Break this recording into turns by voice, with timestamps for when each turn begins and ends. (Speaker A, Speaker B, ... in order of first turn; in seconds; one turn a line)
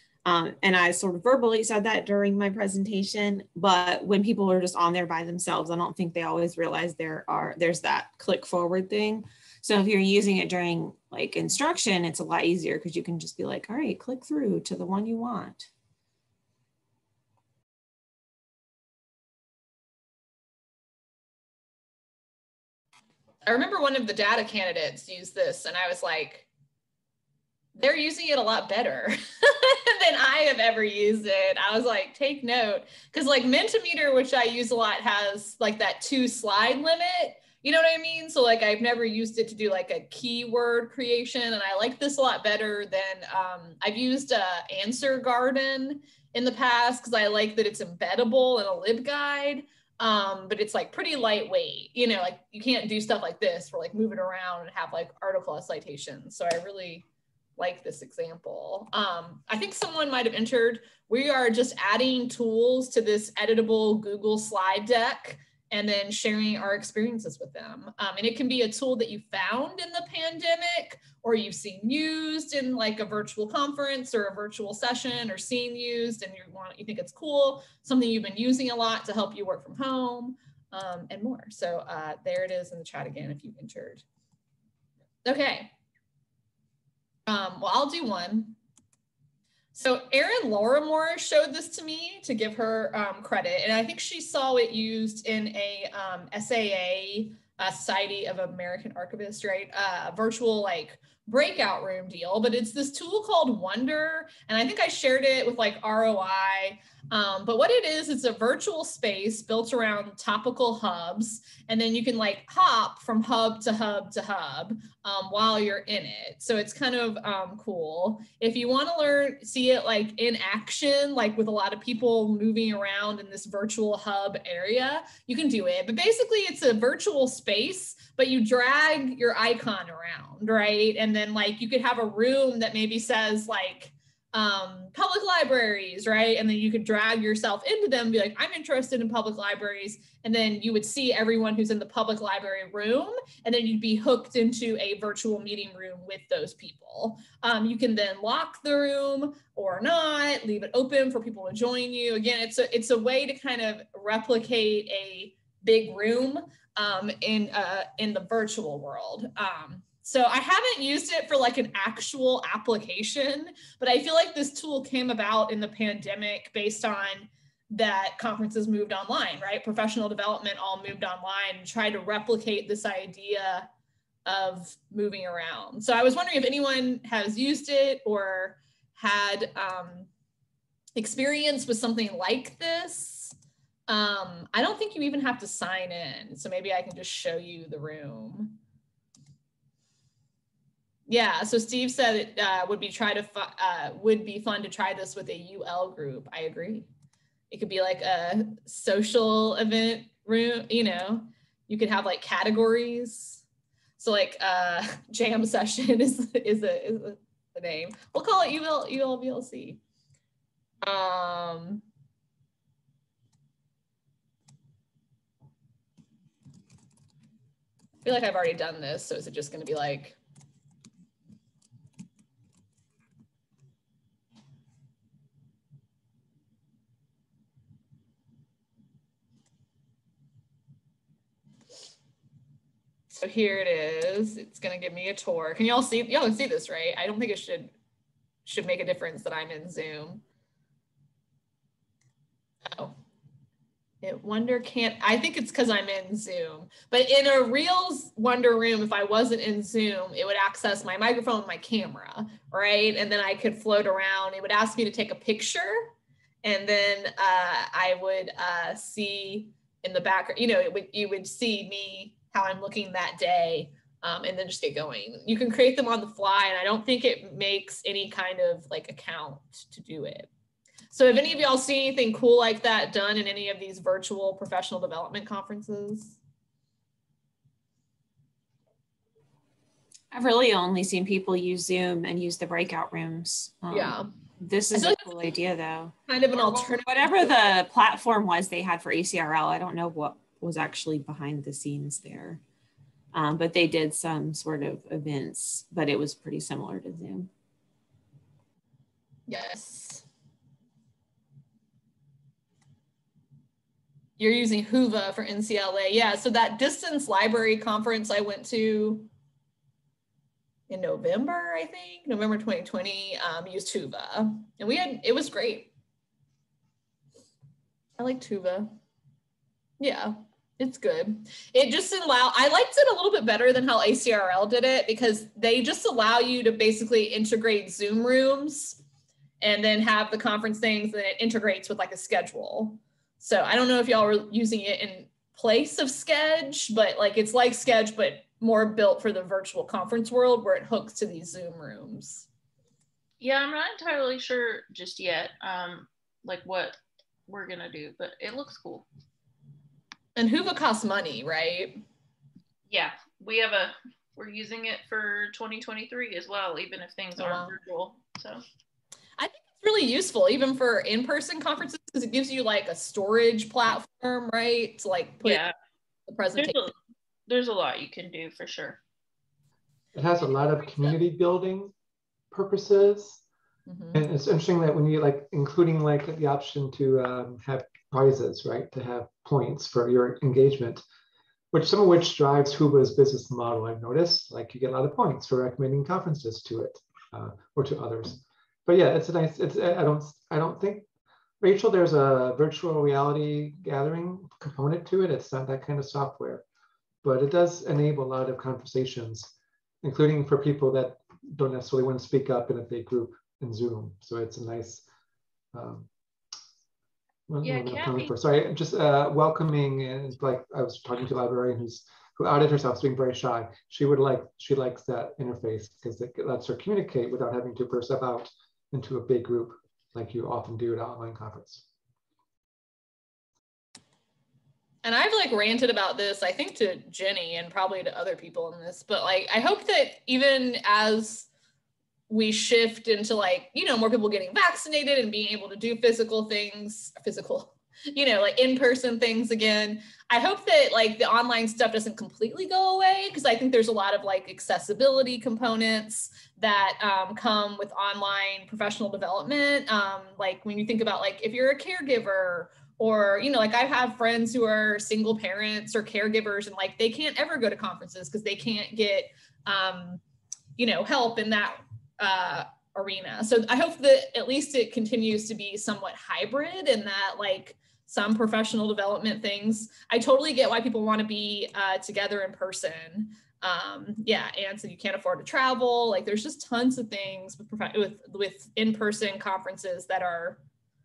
Speaker A: 0.2-15.7
Speaker B: 23.4-26.5
Speaker B: 27.8-57.0
Speaker B: 57.6-84.0
Speaker B: 85.2-85.7
Speaker B: 87.3-88.6
Speaker B: 89.7-173.7
Speaker B: 174.2-180.1
Speaker B: 180.9-183.3
Speaker B: 183.9-188.6
Speaker B: 191.1-196.9
Speaker B: 197.5-203.4
Speaker B: 204.0-209.8
Speaker B: 210.8-211.8
Speaker B: 218.0-220.2
Speaker B: 233.1-237.7
Speaker B: 238.4-240.2
Speaker B: 242.7-242.9
Speaker B: 244.0-255.9
Speaker B: 256.4-270.3
Speaker B: 270.9-276.2
Speaker A: 280.1-292.4
Speaker B: 283.7-284.1
Speaker B: 284.7-285.1
Speaker B: 286.1-287.3
Speaker A: 293.1-297.3
Speaker B: 299.3-300.0
Speaker B: 304.2-309.1
Speaker B: 310.7-315.7
Speaker B: 318.0-318.7
Speaker B: 319.8-328.8
Speaker B: 329.4-342.3
Speaker C: 343.2-346.8
Speaker C: 347.3-348.9
Speaker B: 350.1-351.8
Speaker C: 352.7-358.4
Speaker B: 357.2-357.5
Speaker B: 359.2-365.4
Speaker C: 365.2-365.5
Speaker B: 366.1-366.6
Speaker C: 366.4-366.7
Speaker C: 367.3-368.8
Speaker D: 369.9-371.7
Speaker D: 372.3-373.2
Speaker B: 373.7-374.0
Speaker D: 373.9-380.8
Speaker D: 381.5-390.9
Speaker D: 391.4-396.4
Speaker D: 397.0-404.8
Speaker D: 405.5-405.9
Speaker D: 407.3-421.6
Speaker C: 407.4-408.1
Speaker B: 424.8-431.3
Speaker B: 432.1-460.0
Speaker B: 460.6-480.4